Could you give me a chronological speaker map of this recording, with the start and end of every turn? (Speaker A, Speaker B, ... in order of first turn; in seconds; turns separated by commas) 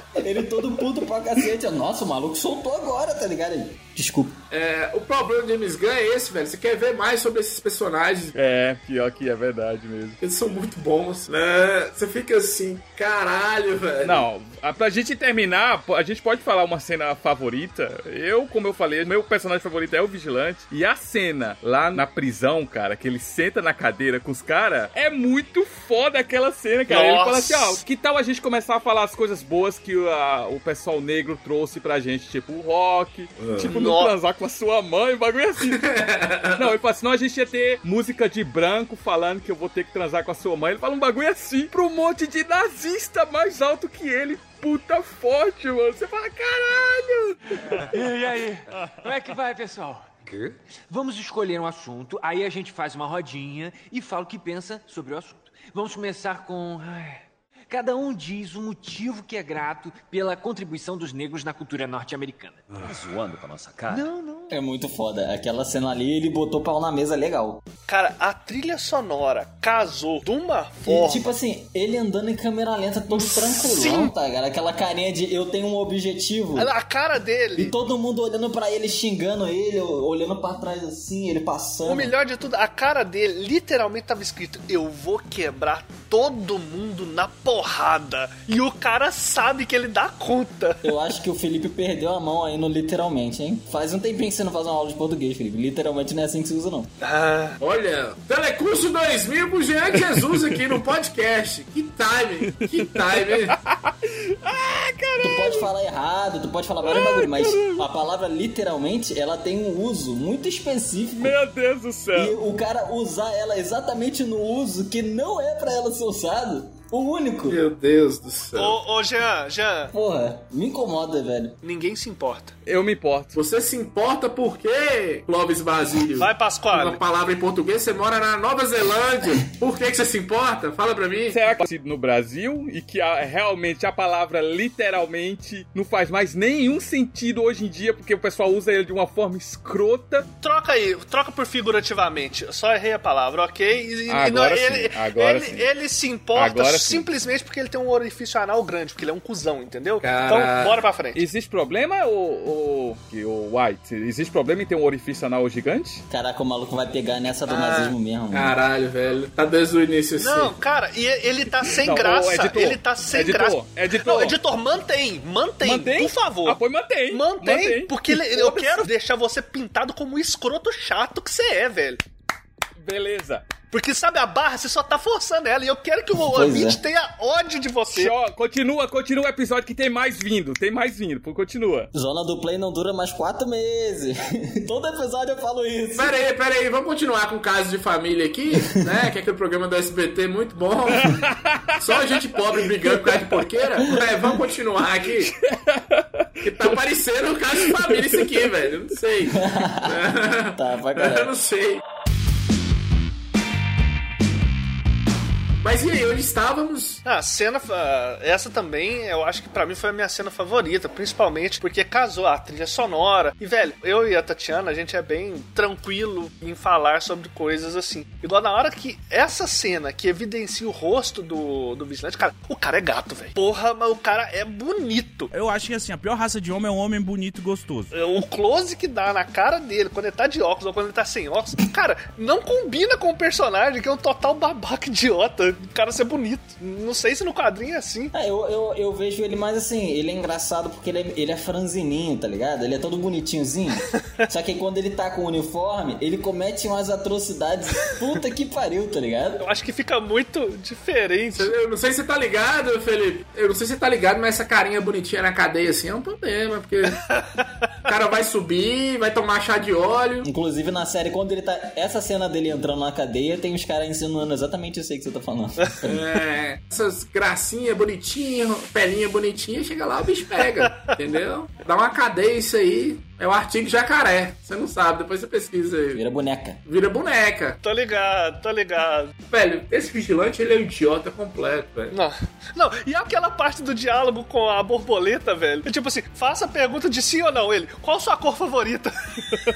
Speaker A: 0.2-4.4, Speaker B: 4.5-8.3, Speaker C: 8.3-10.2, Speaker B: 10.2-14.2, Speaker C: 14.0-35.8, Speaker D: 26.9-27.8, Speaker B: 33.4-33.8, Speaker D: 33.7-34.1, Speaker B: 35.7-36.7, Speaker C: 36.6-47.8, Speaker E: 47.9-64.4, Speaker A: 64.5-67.6, Speaker D: 67.9-71.3, Speaker A: 70.8-76.7, Speaker D: 73.1-74.1, Speaker D: 76.5-77.7, Speaker A: 77.5-82.1, Speaker D: 81.8-90.8, Speaker A: 90.8-96.9, Speaker D: 97.0-97.6, Speaker B: 97.6-103.5, Speaker C: 99.9-100.6, Speaker C: 102.5-105.7, Speaker A: 105.2-111.4, Speaker C: 106.8-107.8, Speaker C: 111.2-112.4, Speaker A: 112.1-117.6, Speaker B: 117.5-118.8, Speaker D: 118.5-119.9, Speaker A: 119.9-121.6, Speaker D: 121.6-122.5, Speaker C: 122.7-123.3, Speaker B: 123.3-131.4, Speaker D: 126.2-127.0, Speaker C: 131.3-140.3, Speaker D: 140.4-151.2, Speaker C: 144.1-145.7, Speaker C: 146.3-147.1, Speaker B: 150.0-150.8, Speaker C: 151.1-156.0, Speaker A: 156.1-158.6, Speaker D: 157.5-157.9, Speaker B: 158.3-160.5, Speaker D: 160.2-166.6, Speaker C: 161.7-164.3, Speaker C: 165.6-168.9, Speaker D: 167.1-172.0, Speaker C: 172.8-173.4, Speaker D: 173.7-178.1, Speaker A: 176.3-176.8, Speaker C: 177.9-181.9, Speaker A: 181.9-186.1, Speaker B: 185.9-191.2, Speaker C: 190.9-193.4, Speaker B: 191.8-195.3, Speaker C: 195.4-196.8, Speaker B: 196.4-201.8, Speaker C: 197.6-198.5, Speaker A: 199.3-199.9, Speaker A: 200.5-201.3, Speaker B: 205.6-207.0, Speaker D: 207.0-225.3, Speaker F: 225.3-227.9, Speaker D: 227.9-238.1, Speaker A: 238.1-249.4, Speaker D: 249.4-251.5, Speaker B: 251.3-257.0, Speaker D: 256.9-257.4, Speaker B: 257.9-260.2, Speaker A: 260.2-266.0, Speaker B: 265.8-276.0, Speaker A: 275.9-276.6, Speaker B: 276.6-277.6, Speaker D: 277.6-279.1, Speaker B: 279.3-281.9, Speaker D: 281.9-289.3